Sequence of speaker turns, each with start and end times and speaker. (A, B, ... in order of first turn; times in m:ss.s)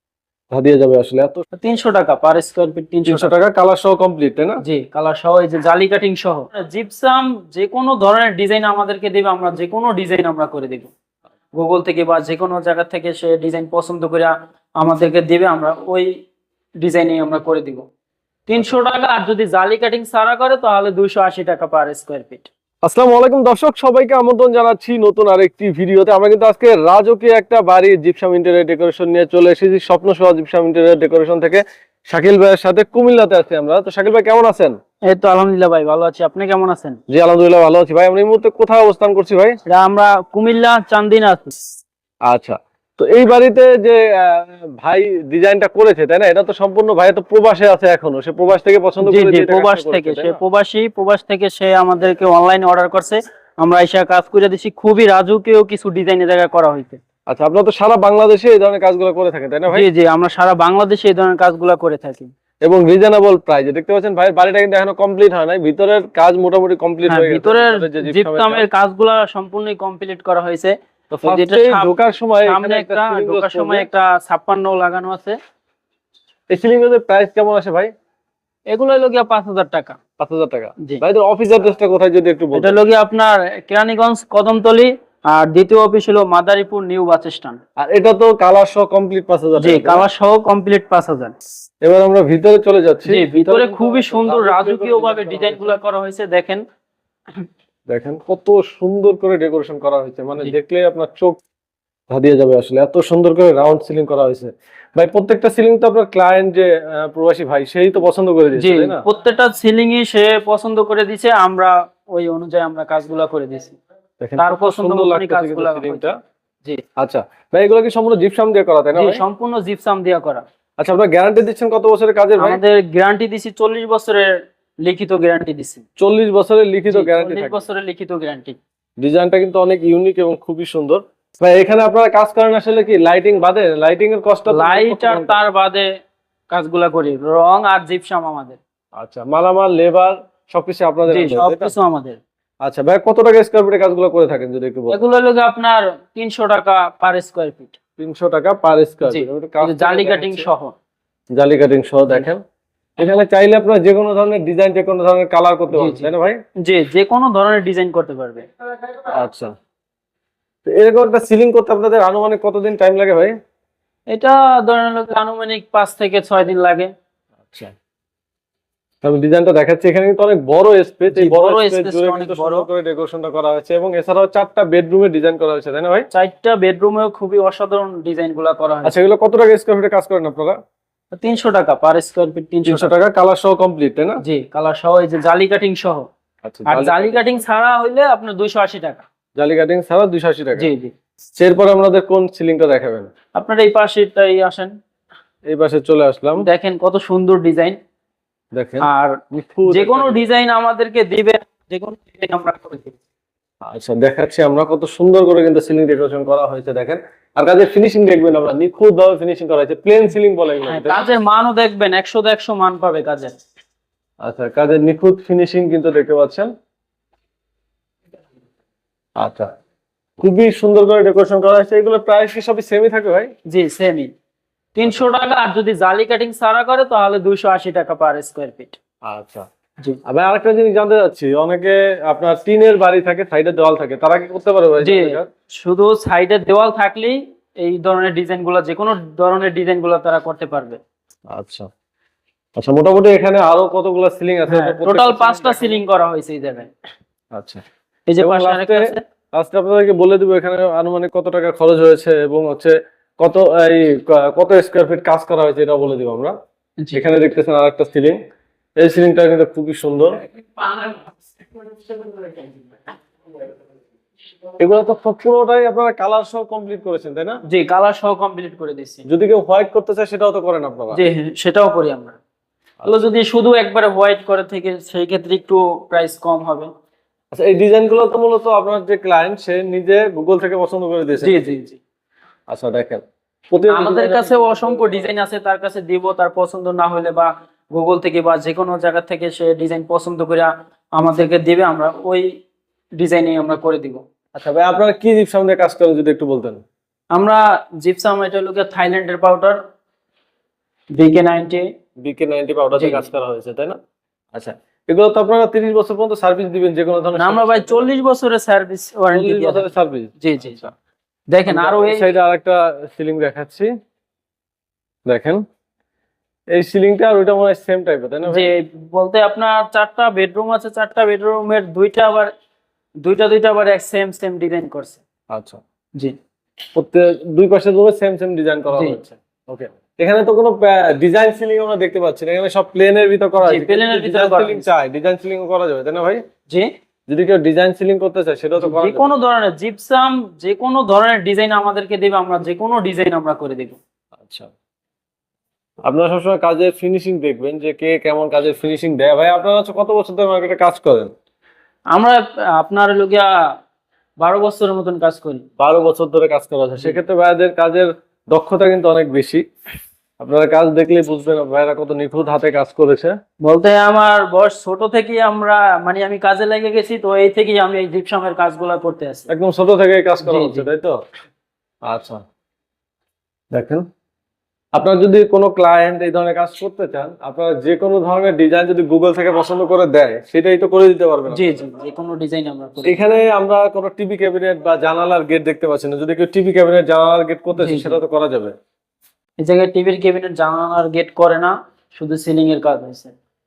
0:00.5-0:01.4 A
0:01.6-0:03.3 B
0:03.1-0:04.6 A
0:04.6-0:10.9 B
0:11.6-0:16.1 B
0:16.8-0:17.9 B
0:18.5-0:22.5 B
0:22.8-0:34.7 A
0:35.1-0:37.0 B
0:37.1-0:39.6 A
0:39.7-0:41.5 B
0:42.3-0:50.4 A
0:49.0-0:57.0 B
0:57.3-0:59.9 A
0:59.7-1:02.3 B
1:02.6-1:08.6 A
1:07.1-1:10.7 B
1:11.1-1:13.9 A
1:11.3-1:11.9 B
1:12.5-1:15.4 B
1:16.5-1:17.9 A
1:18.7-1:20.0 B
1:20.2-1:22.8 A
1:22.5-1:27.6 B
1:27.8-1:30.0 A
1:29.6-1:31.3 B
1:31.8-1:35.7 A
1:33.1-1:36.6 B
1:37.9-1:41.4 A
1:42.1-1:49.0 A
1:48.6-1:53.8 B
1:54.2-1:56.2 A
1:54.4-1:56.1 B
1:57.0-1:59.2 A
1:59.0-2:00.4 B
2:00.8-2:02.6 A
2:02.4-2:04.3 B
2:04.8-2:05.8 B
2:06.0-2:07.6 A
2:06.9-2:08.6 B
2:09.0-2:15.4 A
2:14.5-2:15.9 B
2:16.5-2:18.6 B
2:19.0-2:21.7 A
2:21.1-2:22.2 B
2:22.6-2:25.0 A
2:24.9-2:27.8 B
2:28.0-2:30.5 A
2:29.1-2:30.8 B
2:31.3-2:32.4 A
2:33.0-2:36.4 A
2:35.7-2:36.1 B
2:36.6-2:38.4 B
2:39.1-2:39.5 A
2:40.6-2:43.4 A
2:44.1-2:46.9 B
2:49.0-2:56.1 A
2:51.1-2:52.7 B
2:56.1-2:59.0 B
2:58.8-3:00.6 A
3:01.1-3:02.9 B
3:02.6-3:04.2 A
3:04.2-3:06.1 B
3:06.4-3:07.3 A
3:06.7-3:09.0 B
3:09.4-3:10.7 A
3:10.6-3:10.9 B
3:11.4-3:13.1 A
3:13.4-3:14.7 B
3:15.5-3:16.5 A
3:16.4-3:17.8 B
3:18.6-3:20.3 A
3:18.8-3:23.0 B
3:23.6-3:31.0 A
3:30.7-3:33.4 B
3:34.2-3:36.5 A
3:39.2-3:39.5 A
3:40.2-3:43.3 A
3:43.5-3:44.1 B
3:44.8-3:48.8 B
3:49.1-3:49.4 A
3:50.1-3:55.3 A
3:54.8-4:00.8 B
4:01.3-4:01.7 A
4:02.6-4:05.8 A
4:04.5-4:06.7 B
4:07.3-4:07.6 A
4:08.1-4:09.0 B
4:08.2-4:16.3 A
4:16.9-4:18.2 A
4:18.8-4:20.2 A
4:24.6-4:27.4 A
4:27.5-4:29.1 B
4:29.1-4:31.0 A
4:30.9-4:32.2 B
4:32.8-4:36.7 B
4:37.3-4:41.4 A
4:41.2-4:41.8 B
4:42.5-4:45.1 A
4:43.7-4:52.3 B
4:53.0-4:54.0 B
4:54.4-4:56.6 A
4:57.1-4:59.6 B
5:01.0-5:01.7 B
5:02.0-5:03.8 A
5:02.8-5:03.1 B
5:04.3-5:07.9 A
5:07.2-5:10.6 B
5:09.1-5:10.7 A
5:11.3-5:12.1 B
5:11.5-5:13.7 A
5:15.1-5:15.4 A
5:16.5-5:18.5 A
5:18.3-5:22.3 B
5:23.0-5:25.0 B
5:25.3-5:25.6 A
5:26.7-5:36.2 A
5:28.7-5:29.0 B
5:33.4-5:34.7 B
5:37.1-5:39.1 A
5:38.6-5:43.8 B
5:44.2-5:44.5 A
5:45.8-5:51.1 A
5:51.9-5:53.3 B
5:54.2-5:55.4 B
5:55.6-5:59.4 A
6:00.2-6:03.1 A
6:03.4-6:09.3 B
6:09.3-6:11.0 A
6:10.2-6:10.7 B
6:11.9-6:12.2 A
6:13.5-6:13.8 A
6:14.8-6:21.6 A
6:21.3-6:23.0 B
6:22.8-6:28.5 A
6:27.6-6:28.0 B
6:29.4-6:33.2 B